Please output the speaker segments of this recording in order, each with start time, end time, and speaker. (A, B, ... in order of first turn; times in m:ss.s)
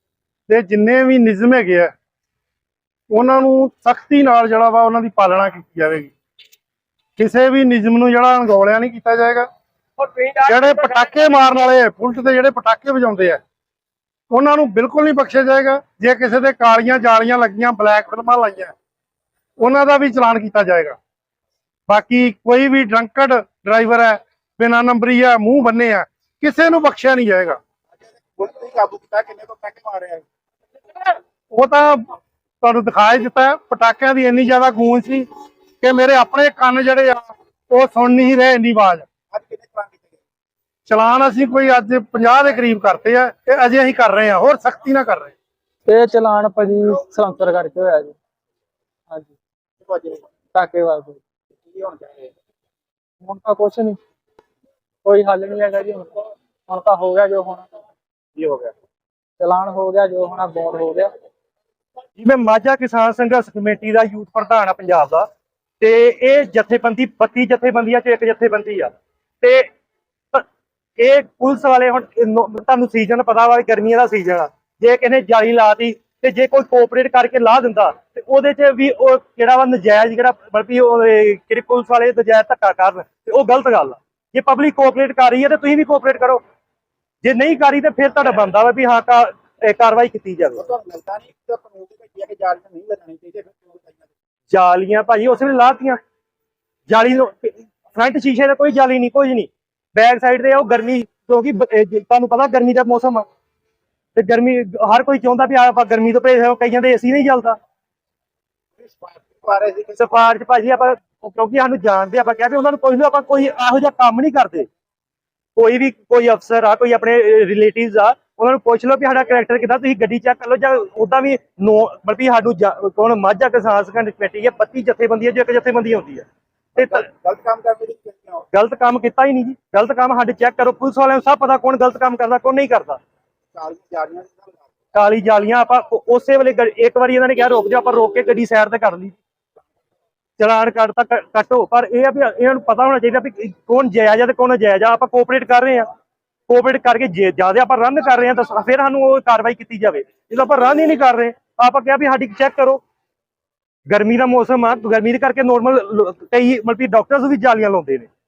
0:00.5-0:01.9 A
0:03.1-0:06.1 A
0:07.2-0:09.5 A
0:10.4-0:13.4 A
0:14.3-0:18.7 A
0:19.6-0:21.0 A
0:21.9-0:27.6 A
0:28.3-0:30.2 B
0:31.5-0:32.0 A
0:32.6-0:35.3 A
0:35.8-0:39.1 A
0:39.3-0:40.2 B
0:40.9-0:45.4 A
0:45.9-0:48.2 C
0:49.1-0:49.4 C
0:49.8-0:50.3 B
0:50.5-0:51.2 C
0:51.6-0:52.3 B
0:53.2-0:54.0 C
0:55.0-0:57.7 C
0:58.4-0:58.7 B
0:59.4-1:01.1 C
1:02.2-1:05.3 D
1:05.8-1:09.7 D
1:11.0-1:26.4 D
1:27.2-1:30.6 D
1:30.6-1:34.1 B
1:34.5-1:36.0 D
1:36.9-1:43.3 D
1:44.2-1:47.6 D
1:48.8-1:50.1 B
1:50.0-1:54.7 D
1:55.6-2:07.1 D
2:06.8-2:08.4 B
2:08.5-2:13.0 D
2:13.5-2:14.6 B
2:14.9-2:19.2 D
2:20.4-2:25.9 D
2:26.5-2:32.8 D
2:33.9-2:38.1 D